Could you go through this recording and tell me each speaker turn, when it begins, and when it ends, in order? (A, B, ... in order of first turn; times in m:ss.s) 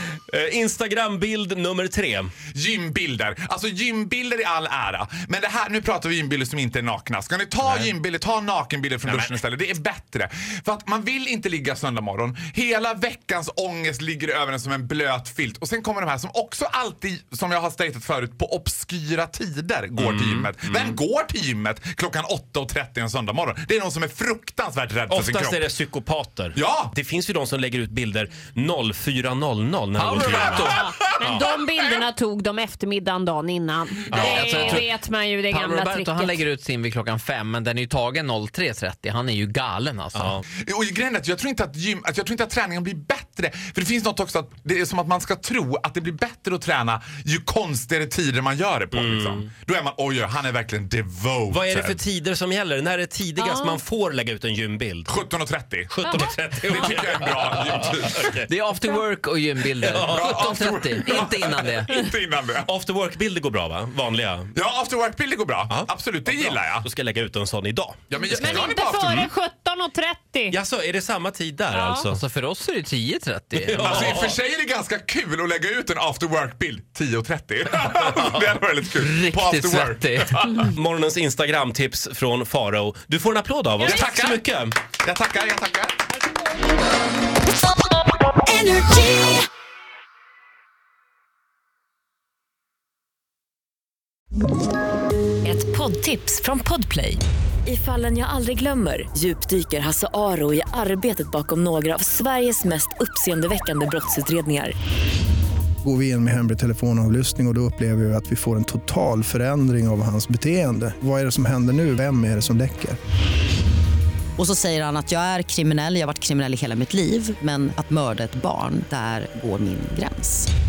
0:00.3-0:02.3 A
0:02.5-0:25.7 B
0:07.6-0:07.9 A
0:09.0-0:09.4 A
0:20.0-0:21.0 A
0:25.1-0:31.4 A
0:26.5-0:26.9 B
0:30.0-0:30.8 C
0:30.2-0:31.9 B
0:30.7-0:36.4 D
0:34.1-0:34.8 A
0:34.1-0:35.0 C
0:35.5-0:40.4 C
0:40.2-0:40.4 A
0:40.6-0:52.0 B
0:48.9-0:49.5 A
0:51.5-0:55.2 A
0:53.4-0:53.8 D
0:55.1-0:56.0 B
0:55.9-0:58.5 A
0:56.1-0:56.7 D
0:56.7-0:58.4 B
0:58.5-1:01.9 C
0:59.8-1:00.6 A
1:00.1-1:02.7 B
1:02.6-1:04.5 A
1:04.5-1:06.9 B
1:05.7-1:09.3 A
1:08.1-1:09.3 B
1:08.2-1:10.6 D
1:10.5-1:12.2 A
1:11.7-1:12.1 D
1:12.1-1:14.2 C
1:13.5-1:14.3 A
1:13.8-1:20.7 B
1:18.1-1:18.4 A
1:19.0-1:20.4 C
1:20.5-1:24.8 A
1:23.8-1:24.4 B
1:25.0-1:26.0 B
1:28.5-1:29.4 E
1:35.4-1:44.7 E
1:45.8-1:53.0 F
1:54.4-2:00.5 G